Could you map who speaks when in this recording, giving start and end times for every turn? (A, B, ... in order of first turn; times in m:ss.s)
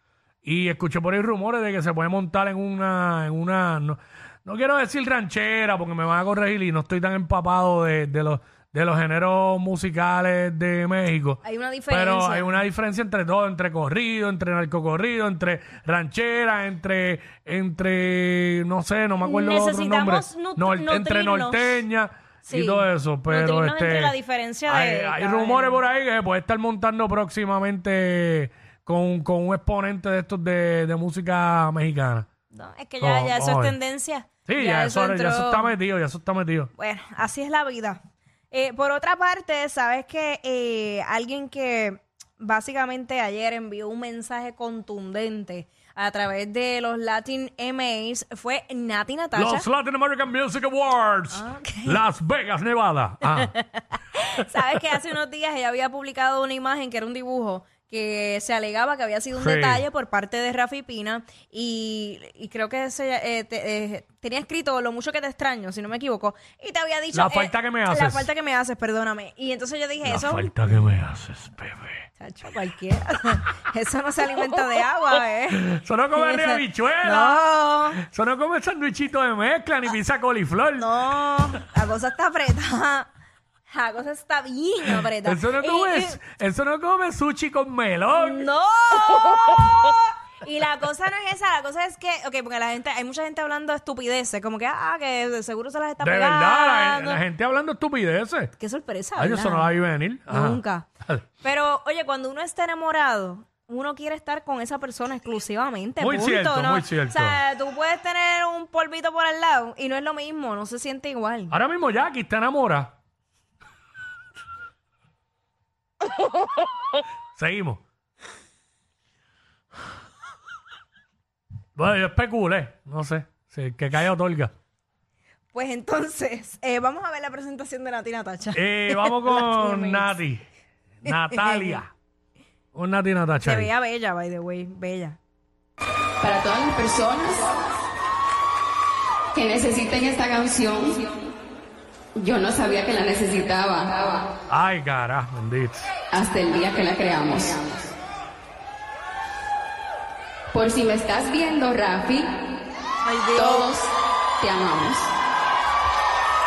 0:00.4-0:24.1 A
0:11.4-0:12.6 B
0:19.2-0:21.8 B
0:22.5-0:25.8 B
0:24.6-0:32.3 A
0:32.5-0:35.7 B
0:33.0-0:33.8 A
0:34.4-0:36.7 A
0:36.7-0:38.0 B
0:38.5-0:49.7 B
0:49.3-0:53.5 A
0:51.3-0:52.0 B
0:53.3-1:10.5 B
0:59.4-0:59.8 A
1:07.1-1:08.3 A
1:10.0-1:12.1 A
1:12.2-1:18.0 B
1:15.5-1:17.4 A
1:18.0-1:20.9 A
1:20.8-1:23.1 B
1:23.7-1:26.2 B
1:25.2-1:28.4 A
1:28.1-1:37.2 B
1:36.0-1:38.5 A
1:38.6-1:39.7 B
1:39.2-1:41.2 A
1:40.3-1:40.9 B
1:41.4-1:51.5 B
1:46.0-1:47.4 A
1:51.5-1:52.9 A
1:57.4-1:57.8 A
2:01.8-2:04.5 A
2:05.5-2:10.2 B
2:08.5-2:10.4 A
2:11.0-2:11.9 A
2:11.1-2:11.8 B
2:12.7-2:13.7 A
2:13.4-2:15.2 B
2:16.2-2:17.4 C
2:19.3-2:21.0 C
2:22.2-2:24.3 C
2:24.5-2:25.9 A
2:26.1-2:27.9 C
2:30.5-2:32.3 C
2:33.0-2:33.7 B
2:33.3-2:35.1 C